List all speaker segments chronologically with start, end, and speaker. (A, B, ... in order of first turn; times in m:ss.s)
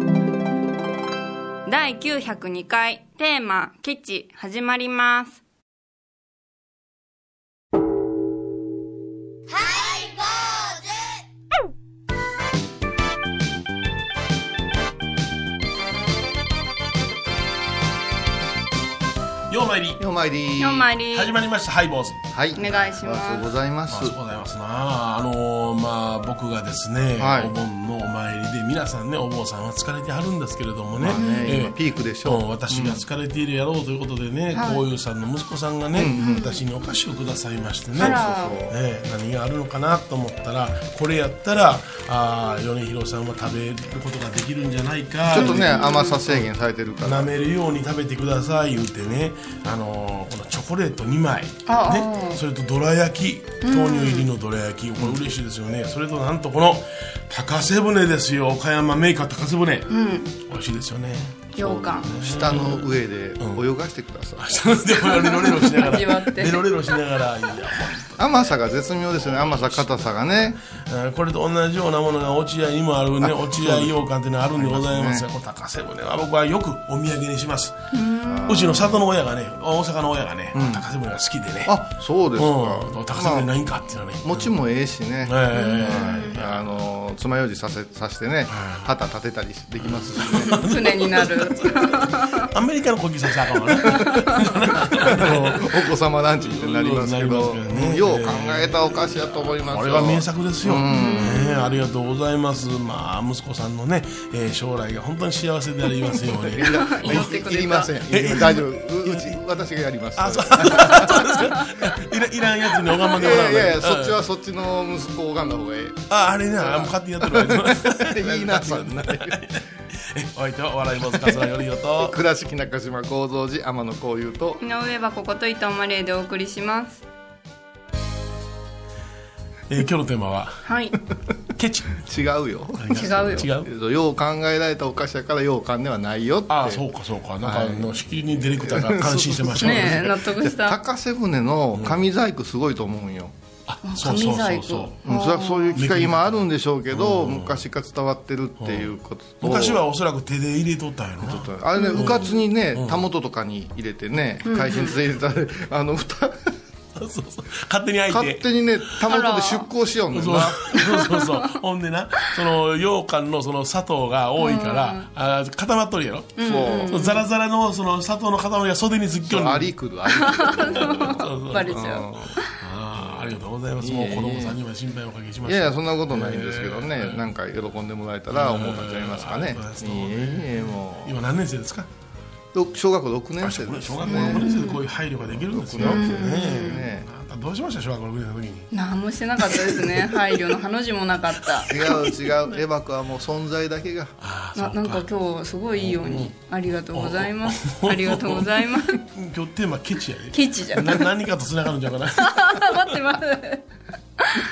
0:01.7-0:05.4 A
0:19.5-0:20.0 B
0:20.0-0:20.9 C
0:20.6-0:21.4 A
0:21.1-0:22.2 B
0:22.3-0:24.2 C
0:22.6-0:23.5 A
0:23.9-0:46.5 B
0:27.2-0:27.5 C
0:31.0-0:33.0 C
0:31.1-0:31.6 A
0:34.5-0:34.8 A
0:35.9-0:36.4 C
0:36.2-0:36.6 A
0:38.0-0:38.7 C
0:38.0-0:38.6 A
0:45.3-0:47.3 C
0:45.3-0:46.2 A
0:47.0-1:03.6 B
0:51.7-0:52.4 A
0:53.6-0:54.3 A
0:59.9-1:00.3 A
1:01.6-1:02.1 A
1:01.6-1:04.8 C
1:04.4-1:08.2 B
1:05.1-1:07.0 A
1:08.2-1:10.6 C
1:09.2-1:09.9 B
1:10.8-1:17.8 B
1:13.2-1:14.0 C
1:14.6-1:15.2 C
1:17.9-1:19.0 A
1:18.3-1:18.9 C
1:18.5-1:21.7 B
1:20.5-1:20.9 C
1:21.7-1:23.5 C
1:22.4-1:24.5 B
1:24.2-1:30.5 C
1:25.3-1:26.8 B
1:25.5-1:26.3 A
1:28.5-1:28.9 B
1:29.8-1:47.4 B
1:30.4-1:32.4 A
1:33.8-1:34.3 C
1:34.9-1:41.4 C
1:40.9-1:41.7 A
1:46.3-1:51.4 C
1:46.6-1:47.9 A
1:48.1-1:49.4 B
1:50.2-1:54.2 B
1:53.2-1:59.4 C
1:56.1-2:02.2 B
2:02.0-2:04.6 C
2:04.6-2:07.0 A
2:09.7-2:10.7 B
2:10.6-2:10.9 A
2:11.6-2:12.0 B
2:12.0-2:16.8 C
2:12.8-2:13.7 B
2:12.9-2:13.5 A
2:16.5-2:20.1 B
2:17.4-2:18.0 C
2:18.6-2:23.3 C
2:19.6-2:20.8 A
2:23.7-2:25.0 B
2:23.8-2:25.8 A
2:25.0-2:29.8 C
2:25.7-2:27.6 B
2:28.6-2:33.0 B
2:31.2-2:36.6 C
2:31.8-2:32.2 A
2:34.5-2:35.0 A
2:37.0-2:38.4 B
2:38.1-2:40.6 C
2:39.1-2:39.7 A
2:40.1-2:49.7 B
2:41.0-2:41.4 A
2:44.4-2:45.1 A
2:46.4-2:47.2 A
2:46.4-2:47.0 C
2:49.2-2:52.4 C
2:50.1-2:52.5 A
2:50.5-2:52.0 B
2:52.6-2:57.2 B
2:53.8-2:54.6 C
2:55.4-3:01.2 C
2:58.3-3:01.9 B
3:02.5-3:04.5 C
3:03.4-3:08.7 B
3:04.1-3:04.8 A
3:05.2-3:07.1 C
3:05.8-3:06.8 A
3:08.7-3:11.7 A
3:09.4-3:10.6 B
3:11.4-3:12.3 B
3:11.7-3:14.2 C
3:14.2-3:15.1 B
3:14.6-3:19.0 A
3:15.8-3:16.3 B
3:16.9-3:23.0 B
3:20.3-3:21.1 A
3:22.2-3:23.6 A